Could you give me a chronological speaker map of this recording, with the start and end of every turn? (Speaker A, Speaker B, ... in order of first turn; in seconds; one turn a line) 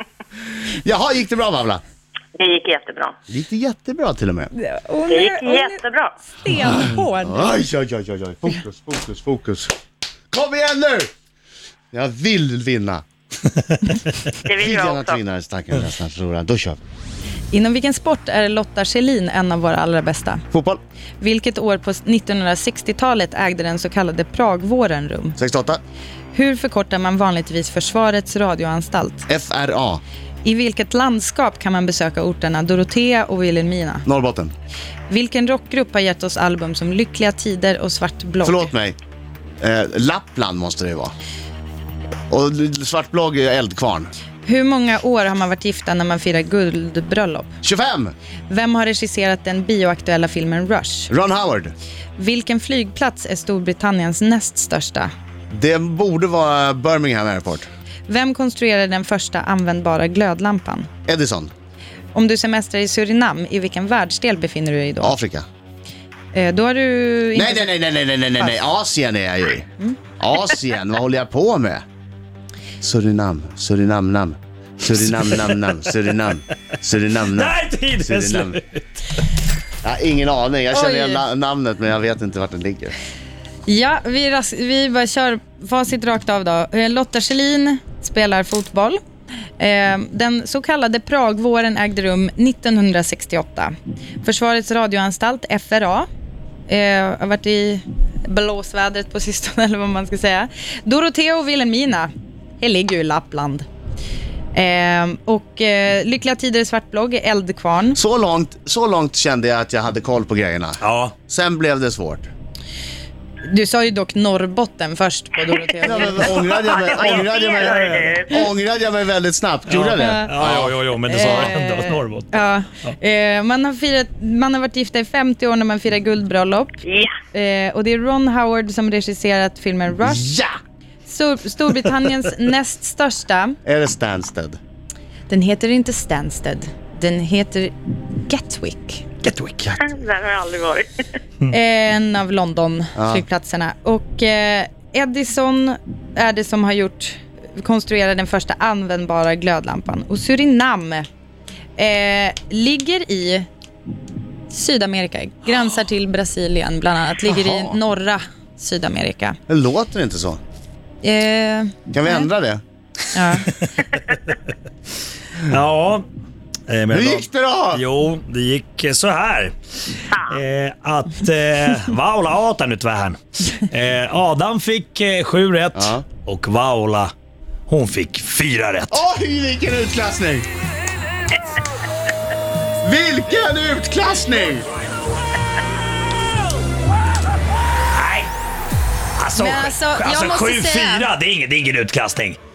Speaker A: 0.8-1.8
Speaker B: 2.4-3.1
Speaker A: 3.3-4.5
Speaker C: 4.5-7.6
Speaker B: 5.1-6.1
Speaker A: 6.8-9.7
Speaker A: 10.3-11.1
Speaker A: 11.9-13.0
Speaker B: 14.4-15.2
Speaker A: 14.6-16.8
Speaker C: 17.5-20.4
Speaker A: 20.5-20.8
Speaker C: 21.2-25.4
Speaker A: 25.4-25.8
Speaker C: 26.3-29.2
Speaker A: 29.3-30.0
Speaker C: 30.4-34.0
Speaker A: 34.0-34.5
Speaker C: 35.1-38.7
Speaker A: 38.4-39.0
Speaker A: 39.6-41.1
Speaker A: 42.3-44.1
Speaker C: 44.4-47.5
Speaker A: 47.6-48.1
Speaker C: 48.5-51.1
Speaker A: 51.1-51.7
Speaker C: 52.2-55.1
Speaker A: 55.5-57.7
Speaker C: 58.1-60.9
Speaker A: 61.1-61.5
Speaker C: 62.1-65.1
Speaker A: 65.0-65.5
Speaker C: 66.3-67.7
Speaker A: 67.3-69.7
Speaker A: 70.2-71.8
Speaker A: 72.8-78.6
Speaker D: 77.3-78.8
Speaker A: 79.8-82.9
Speaker C: 80.7-81.2
Speaker C: 83.7-89.0
Speaker C: 89.6-96.0
Speaker C: 96.7-103.7
Speaker C: 104.5-108.0
Speaker A: 107.9-112.3
Speaker D: 110.8-111.1
Speaker C: 113.4-116.4
Speaker A: 115.8-121.5
Speaker B: 116.4-118.4
Speaker D: 119.7-122.9
Speaker C: 120.0-120.3
Speaker C: 121.0-130.3
Speaker B: 126.8-127.1
Speaker A: 130.0-130.5
Speaker C: 131.1-133.6
Speaker A: 133.6-134.6
Speaker C: 135.3-139.0
Speaker D: 139.2-139.8
Speaker B: 139.8-140.9
Speaker C: 141.5-151.1
Speaker A: 142.9-143.2
Speaker C: 151.8-153.5
Speaker C: 154.5-159.4
Speaker A: 157.3-157.8
Speaker A: 159.5-160.4
Speaker C: 161.0-162.3
Speaker A: 161.9-162.6
Speaker C: 163.1-163.5
Speaker D: 165.4-166.1
Speaker D: 166.7-169.5
Speaker A: 166.9-167.8
Speaker B: 170.1-170.4
Speaker D: 170.3-177.1
Speaker A: 175.7-176.0
Speaker D: 177.7-179.0
Speaker A: 178.9-180.5
Speaker A: 182.8-184.7
Speaker D: 187.9-188.3
Speaker D: 189.2-192.4
Speaker C: 189.3-191.1